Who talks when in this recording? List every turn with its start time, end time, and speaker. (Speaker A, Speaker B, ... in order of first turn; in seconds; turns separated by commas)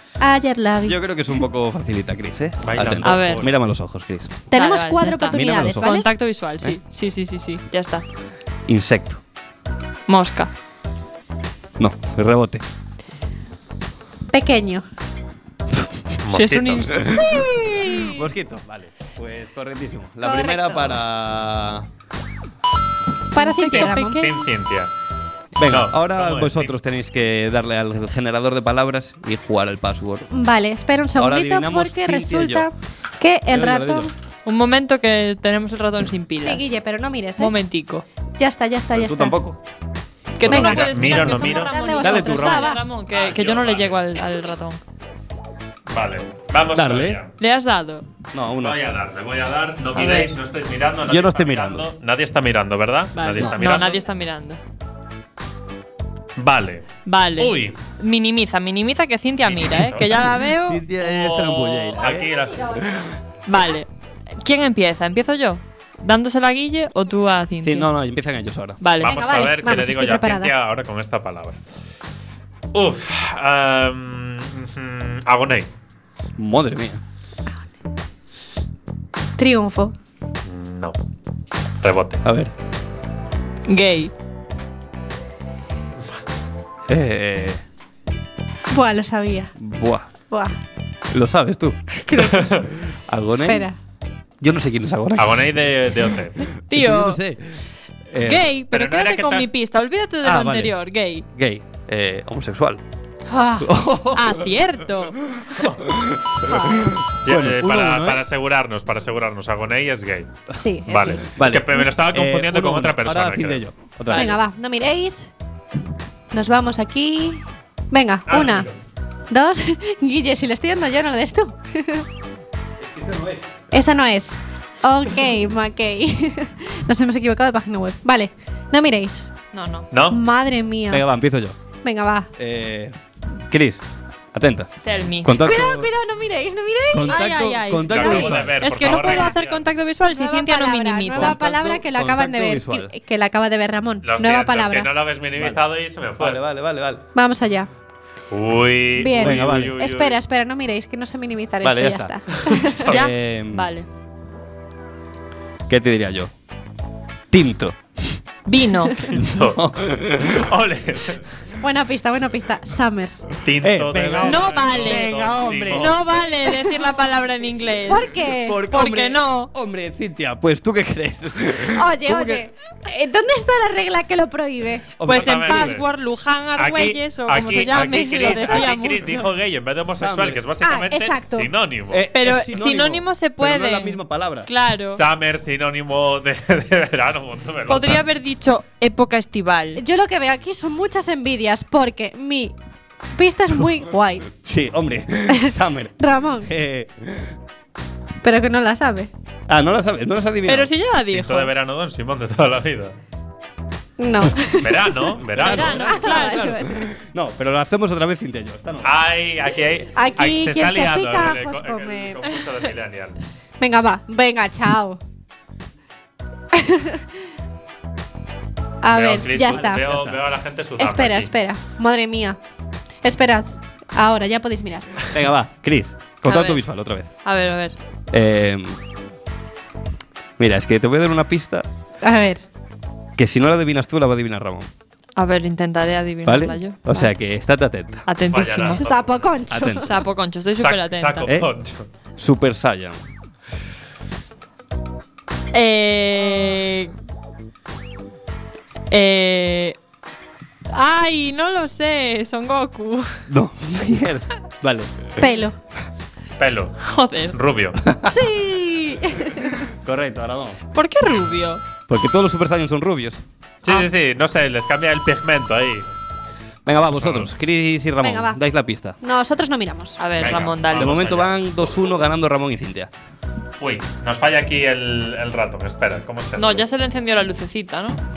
Speaker A: 0.2-1.0, Speaker B: 0.8-4.4, Speaker C: 2.6-3.5, Speaker D: 3.0-3.5, Speaker A: 4.5-6.1, Speaker D: 4.5-8.1, Speaker B: 5.3-5.9, Speaker B: 8.7-9.2, Speaker D: 10.1-10.5, Speaker B: 11.8-12.6, Speaker A: 14.3-14.8, Speaker C: 16.2-17.0, Speaker D: 16.3-18.1, Speaker B: 16.9-21.9, Speaker A: 20.2-20.9, Speaker A: 23.3-24.2, Speaker D: 23.3-24.4, Speaker C: 23.8-24.9, Speaker B: 25.6-30.3, Speaker C: 25.6-26.7, Speaker A: 30.3-34.1, Speaker B: 31.1-32.7, Speaker B: 33.5-34.1, Speaker D: 34.5-36.7, Speaker A: 36.4-37.5, Speaker D: 37.4-38.0, Speaker A: 38.4-39.4, Speaker B: 38.9-39.6, Speaker D: 40.4-44.8, Speaker C: 40.4-41.7, Speaker A: 40.5-42.8, Speaker B: 42.0-42.8, Speaker C: 43.1-44.0, Speaker C: 45.9-47.3, Speaker B: 46.7-47.2, Speaker D: 47.4-48.0, Speaker B: 48.3-48.8, Speaker C: 48.6-54.0, Speaker D: 50.0-50.3, Speaker B: 51.0-51.9, Speaker D: 53.1-54.6, Speaker C: 56.4-57.7, Speaker D: 57.0-60.8, Speaker C: 59.5-60.3, Speaker B: 60.6-63.1, Speaker C: 61.0-62.7, Speaker A: 62.0-62.8, Speaker D: 63.5-63.9, Speaker D: 64.4-67.9, Speaker B: 67.6-68.8, Speaker D: 68.8-69.1, Speaker C: 69.0-71.6, Speaker A: 69.0-70.5, Speaker C: 72.7-75.7, Speaker B: 76.4-77.0, Speaker A: 79.4-79.9, Speaker C: 80.5-81.0, Speaker C: 81.8-82.2, Speaker B: 82.2-82.5, Speaker D: 83.7-84.1, Speaker B: 86.9-87.6, Speaker A: 88.7-89.5, Speaker B: 89.6-90.0, Speaker B: 91.1-91.8, Speaker A: 92.1-92.5, Speaker C: 92.2-92.7, Speaker B: 92.8-93.7, Speaker A: 93.4-93.7, Speaker B: 94.4-95.7, Speaker C: 95.2-96.4, Speaker B: 96.4-97.6, Speaker D: 96.7-97.2, Speaker B: 98.1-98.5, Speaker D: 98.2-101.2, Speaker C: 98.7-99.5, Speaker B: 100.2-100.8, Speaker B: 101.3-102.8, Speaker A: 103.3-103.7, Speaker B: 103.6-104.5, Speaker D: 104.1-105.1, Speaker B: 105.4-108.2, Speaker A: 106.5-106.9, Speaker C: 107.2-110.3, Speaker A: 110.5-111.2, Speaker C: 110.9-113.6, Speaker B: 111.3-114.4, Speaker D: 114.1-114.4, Speaker A: 114.1-115.3, Speaker A: 116.3-118.7, Speaker C: 118.3-118.7, Speaker A: 119.3-122.0, Speaker B: 122.8-123.4, Speaker A: 123.7-129.3, Speaker D: 129.5-129.9, Speaker C: 129.9-130.2, Speaker A: 130.1-131.0, Speaker B: 130.9-131.6, Speaker A: 131.8-132.3, Speaker B: 132.4-132.9, Speaker B: 133.5-133.8, Speaker B: 134.3-134.7, Speaker D: 134.8-135.6, Speaker B: 135.2-135.9, Speaker A: 135.4-137.3, Speaker B: 136.9-138.9, Speaker D: 137.1-141.4, Speaker C: 137.9-139.6, Speaker A: 137.9-139.3, Speaker A: 140.1-144.9, Speaker B: 141.1-142.9, Speaker C: 144.0-146.4, Speaker B: 145.4-145.6, Speaker B: 146.2-147.0, Speaker A: 147.1-147.7, Speaker C: 148.3-150.2, Speaker A: 149.0-152.8, Speaker B: 149.1-149.7, Speaker B: 151.6-152.2, Speaker C: 152.4-153.0, Speaker B: 152.9-153.7, Speaker D: 152.9-153.9, Speaker B: 155.7-156.3, Speaker B: 157.3-158.2, Speaker D: 158.4-159.0, Speaker B: 159.0-160.3, Speaker C: 159.1-159.6, Speaker C: 160.2-161.2, Speaker A: 161.6-163.2, Speaker C: 163.4-166.0, Speaker B: 163.6-166.1, Speaker D: 164.2-168.1, Speaker A: 166.5-166.7, Speaker A: 167.9-168.6, Speaker B: 168.2-172.5, Speaker D: 168.7-169.5, Speaker A: 171.7-174.9, Speaker B: 175.0-175.8, Speaker D: 175.0-179.2, Speaker C: 175.0-175.8, Speaker C: 176.6-182.0, Speaker B: 178.1-178.7, Speaker B: 180.0-180.4, Speaker A: 180.6-181.5, Speaker B: 181.9-184.5, Speaker D: 182.1-185.0, Speaker C: 184.9-188.1, Speaker D: 187.7-189.8, Speaker A: 189.8-192.6, Speaker A: 193.2-194.3, Speaker B: 194.3-197.3, Speaker A: 195.4-196.5, Speaker A: 198.2-199.1, Speaker B: 199.5-200.7, Speaker D: 200.4-201.5, Speaker C: 201.1-202.9, Speaker A: 204.0-206.9, Speaker C: 204.6-206.1, Speaker B: 205.3-209.0, Speaker D: 205.4-206.5, Speaker C: 208.8-213.2, Speaker A: 209.9-212.2, Speaker A: 213.6-215.0, Speaker A: 216.5-217.0, Speaker A: 218.8-219.8, Speaker C: 218.9-221.3, Speaker B: 219.4-220.2, Speaker A: 220.8-222.4, Speaker A: 223.0-225.1, Speaker B: 225.1-227.1, Speaker D: 226.2-226.6, Speaker D: 227.2-227.8, Speaker B: 228.1-228.8, Speaker B: 230.4-231.7, Speaker A: 232.0-232.4, Speaker B: 233.2-234.7, Speaker D: 235.2-237.1, Speaker B: 236.2-238.1, Speaker D: 238.1-238.8, Speaker C: 238.3-239.3, Speaker A: 238.7-239.9, Speaker B: 239.5-239.9, Speaker D: 239.8-241.3, Speaker C: 240.6-241.8, Speaker B: 241.2-241.5, Speaker B: 242.2-243.0, Speaker D: 245.5-246.9, Speaker D: 248.9-249.8, Speaker D: 250.7-253.2, Speaker B: 253.3-255.2, Speaker A: 255.2-255.6, Speaker C: 256.4-256.8, Speaker D: 256.8-257.3, Speaker C: 257.3-257.8, Speaker D: 258.0-259.0, Speaker B: 259.8-260.6, Speaker D: 260.7-261.6, Speaker B: 261.9-263.2, Speaker C: 263.6-265.9, Speaker B: 266.6-269.0, Speaker C: 266.9-267.3, Speaker A: 268.0-268.4, Speaker A: 269.0-270.0, Speaker D: 270.0-271.0, Speaker C: 270.2-271.5, Speaker B: 270.7-272.9, Speaker C: 273.6-276.6, Speaker D: 276.4-278.0